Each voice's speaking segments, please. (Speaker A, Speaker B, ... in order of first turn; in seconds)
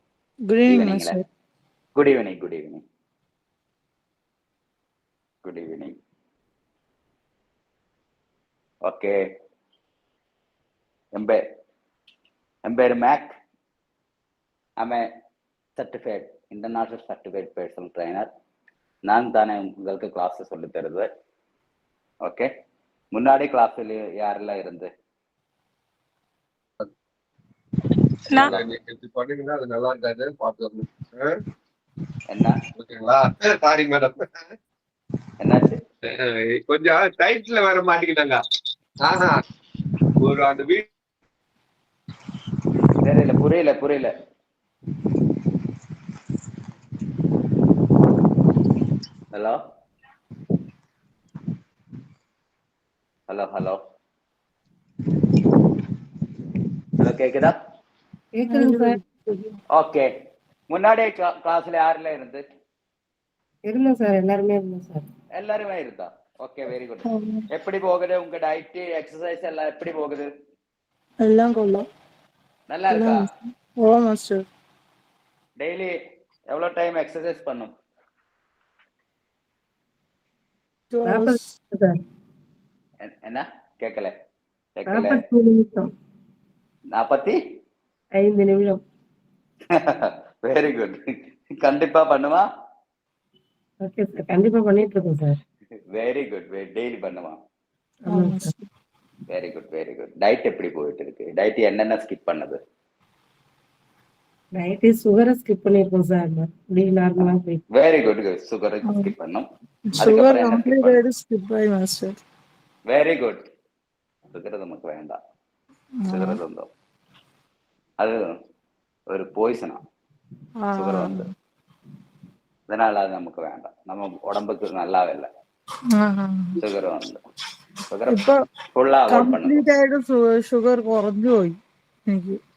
Speaker A: 0.5-1.2, 58.5-59.5, 67.0-67.5, 71.2-71.8, 72.9-74.4, 80.9-81.4, 98.1-98.6, 109.9-112.2, 116.0-116.4, 120.6-121.3, 126.0-126.6, 128.1-128.4, 129.1-132.4
Speaker B: 0.7-1.2, 2.0-2.8, 5.4-6.0, 8.8-9.2, 11.2-11.4, 12.7-13.3, 14.8-15.1, 15.8-18.3, 19.1-21.1, 22.2-22.5, 23.1-24.9, 32.3-32.6, 35.4-35.8, 43.0-44.1, 49.3-49.6, 53.3-53.8, 57.0-57.5, 59.7-60.1, 60.7-62.4, 65.4-70.3, 72.7-73.3, 75.6-76.0, 76.5-77.7, 83.0-84.1, 84.8-85.2, 86.9-87.4, 89.7-91.0, 91.5-92.4, 95.9-97.4, 99.3-102.6, 107.2-109.5, 110.0-111.0, 112.9-113.4, 114.3-115.2, 116.1-116.7, 119.1-119.8, 120.8-121.3, 122.7-125.3, 126.6-127.2, 127.9-128.2, 128.8-129.6
Speaker C: 28.4-31.4, 32.8-34.5, 36.1-38.4, 39.0-39.4, 40.2-40.9
Speaker D: 58.4-59.0, 63.7-65.0, 81.0-82.0, 84.9-85.9, 88.2-88.8, 93.8-95.4, 98.0-98.5, 104.6-107.6